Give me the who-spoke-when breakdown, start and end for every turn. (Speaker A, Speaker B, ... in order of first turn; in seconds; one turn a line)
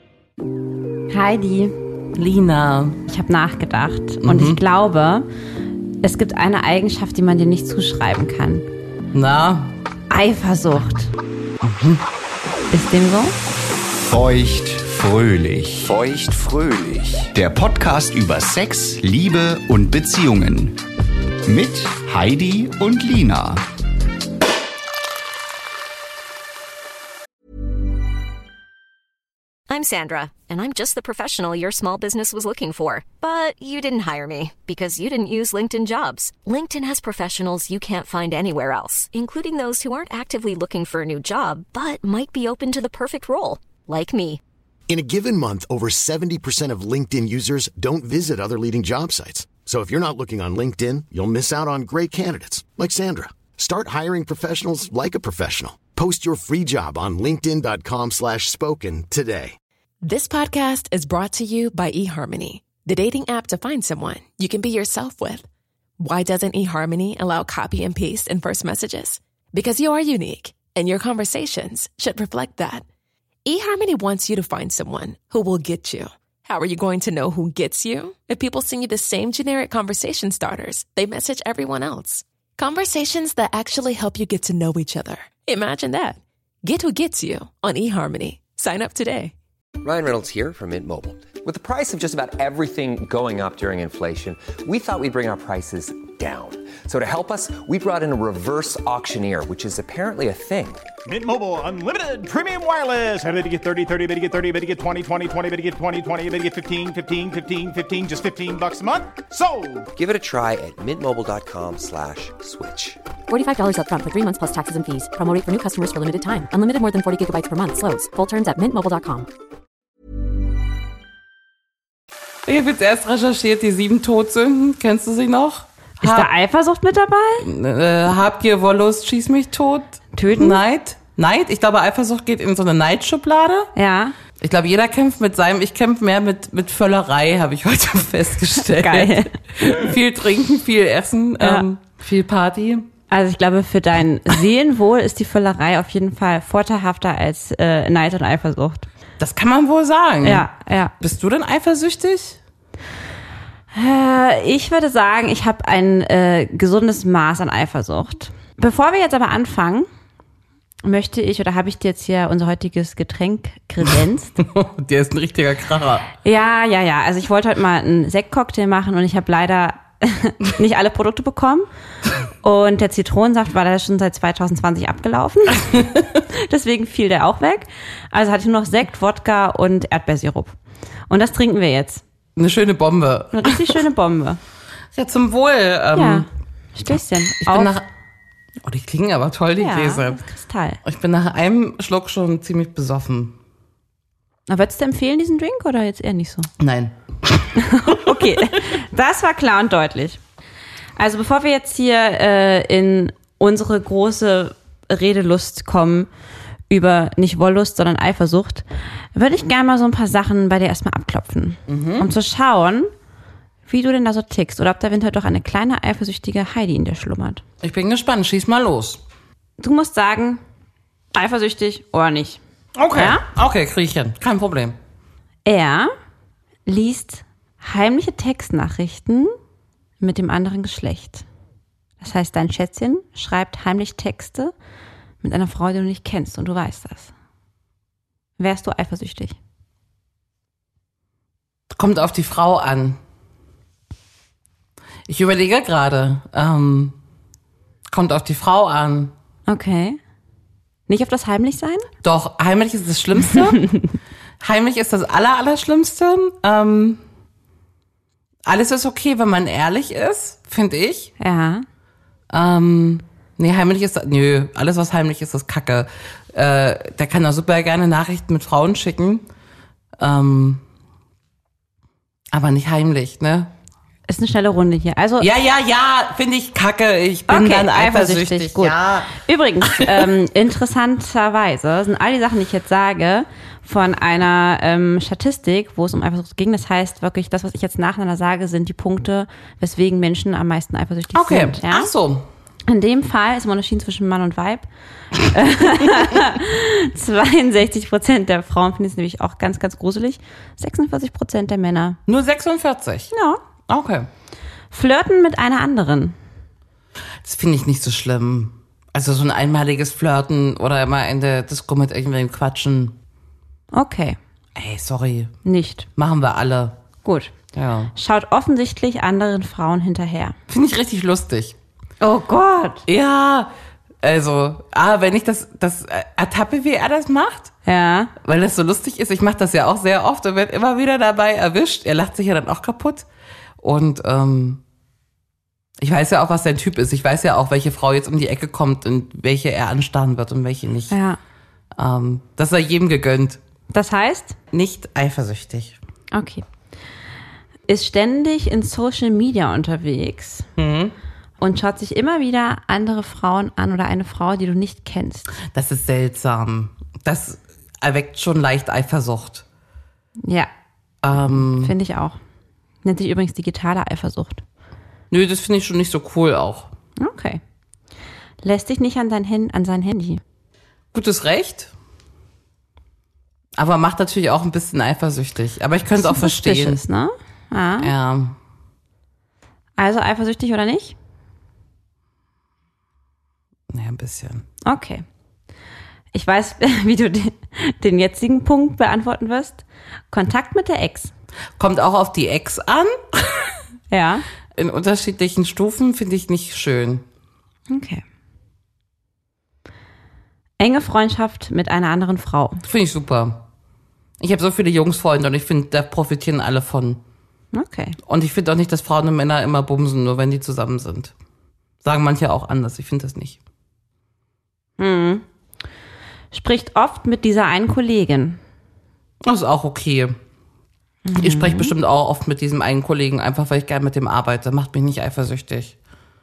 Speaker A: 1.1-1.8
Speaker B: 2.1-3.0
Speaker A: 3.1-5.3
Speaker B: 4.2-4.6
Speaker A: 6.0-8.7
Speaker B: 9.1-9.7
Speaker A: 10.1-11.1
Speaker B: 11.6-12.0
Speaker A: 12.7-13.3
Speaker C: 14.0-20.8
Speaker C: 21.4-23.6
Speaker D: 29.7-44.4
Speaker E: 44.9-59.5
Speaker F: 60.0-65.4
Speaker F: 66.0-72.8
Speaker F: 73.4-89.3
Speaker G: 89.8-100.8
Speaker H: 101.0-109.9
Speaker G: 110.0-113.0
Speaker I: 113.3-119.3
Speaker B: 122.4-126.3
Speaker A: 126.0-127.5
Speaker B: 127.4-133.7
Speaker A: 130.1-130.6
Speaker A: 133.8-134.2
Speaker B: 134.4-142.9
Speaker A: 138.8-139.3
Speaker A: 141.4-141.6
Speaker A: 143.1-148.9
Speaker B: 149.2-150.5
Speaker A: 150.2-150.9
Speaker B: 151.0-152.4
Speaker A: 153.7-159.9
Speaker A: 160.8-164.3
Speaker B: 164.4-166.0
Speaker A: 166.2-171.7
Speaker A: 172.4-175.8
Speaker B: 175.7-176.0
Speaker A: 176.3-180.6
Speaker A: 181.1-182.0
Speaker B: 182.3-183.8
Speaker A: 183.3-184.4
Speaker B: 184.9-186.3
Speaker A: 185.9-187.7
Speaker B: 187.4-187.8
Speaker B: 188.6-190.2
Speaker A: 189.6-190.8
Speaker B: 190.8-193.3
Speaker A: 194.5-196.5
Speaker B: 196.6-198.6
Speaker A: 197.6-200.2
Speaker A: 201.0-206.1
Speaker A: 206.7-212.9
Speaker B: 211.7-212.1
Speaker A: 213.7-217.4
Speaker B: 217.6-219.0
Speaker A: 219.6-220.4
Speaker A: 221.1-222.4
Speaker B: 222.8-224.8
Speaker A: 222.9-223.2
Speaker A: 225.4-225.9
Speaker A: 226.7-229.3
Speaker A: 230.0-231.2
Speaker A: 232.0-234.5
Speaker A: 235.2-237.1
Speaker A: 238.4-239.3
Speaker B: 241.7-243.0
Speaker B: 245.1-246.9
Speaker B: 247.9-249.1
Speaker A: 249.5-250.0
Speaker A: 250.9-251.9
Speaker B: 252.0-253.6
Speaker B: 254.4-257.0
Speaker B: 258.4-261.1
Speaker A: 261.2-261.6
Speaker B: 262.3-269.2
Speaker B: 270.0-270.6
Speaker B: 272.3-273.5
Speaker A: 274.1-275.3
Speaker B: 275.2-280.1
Speaker A: 277.3-291.9
Speaker B: 291.1-292.2
Speaker A: 292.7-302.0
Speaker B: 302.1-303.1
Speaker A: 303.1-303.4
Speaker B: 303.7-304.1
Speaker A: 304.7-306.1
Speaker B: 307.2-312.9
Speaker A: 313.7-314.2
Speaker B: 314.6-315.3
Speaker A: 315.4-315.9
Speaker B: 315.9-316.8
Speaker A: 317.0-317.3
Speaker B: 317.5-317.9
Speaker A: 317.9-320.4
Speaker B: 320.5-321.6
Speaker A: 322.0-322.8
Speaker B: 322.9-323.5
Speaker B: 324.0-327.5
Speaker A: 327.6-328.1
Speaker B: 328.2-333.1
Speaker B: 333.6-334.6
Speaker B: 335.8-340.9
Speaker A: 340.9-341.2
Speaker B: 341.8-343.4
Speaker A: 343.7-344.4
Speaker B: 344.5-345.8
Speaker A: 346.1-346.4
Speaker A: 347.7-350.5
Speaker B: 350.6-350.9
Speaker A: 351.4-355.3
Speaker B: 355.4-359.4
Speaker A: 360.2-360.5
Speaker B: 361.0-361.7
Speaker A: 361.2-362.2
Speaker A: 362.8-364.4
Speaker B: 365.1-366.7
Speaker A: 367.0-367.4
Speaker A: 368.4-370.2
Speaker B: 370.9-371.7
Speaker B: 373.5-376.8
Speaker A: 376.0-377.9
Speaker B: 377.8-378.4
Speaker A: 379.8-380.9
Speaker B: 383.7-384.4
Speaker A: 384.6-385.0
Speaker A: 386.1-391.1
Speaker B: 391.6-393.5
Speaker A: 393.9-394.2
Speaker B: 394.5-397.0
Speaker A: 397.7-398.0
Speaker A: 400.6-402.6
Speaker B: 402.6-403.4
Speaker B: 404.2-407.0
Speaker A: 407.5-408.0
Speaker B: 408.0-411.1
Speaker B: 411.8-413.4
Speaker A: 414.8-415.2
Speaker A: 416.3-418.4
Speaker B: 419.2-420.2
Speaker A: 421.0-421.7
Speaker B: 421.1-425.7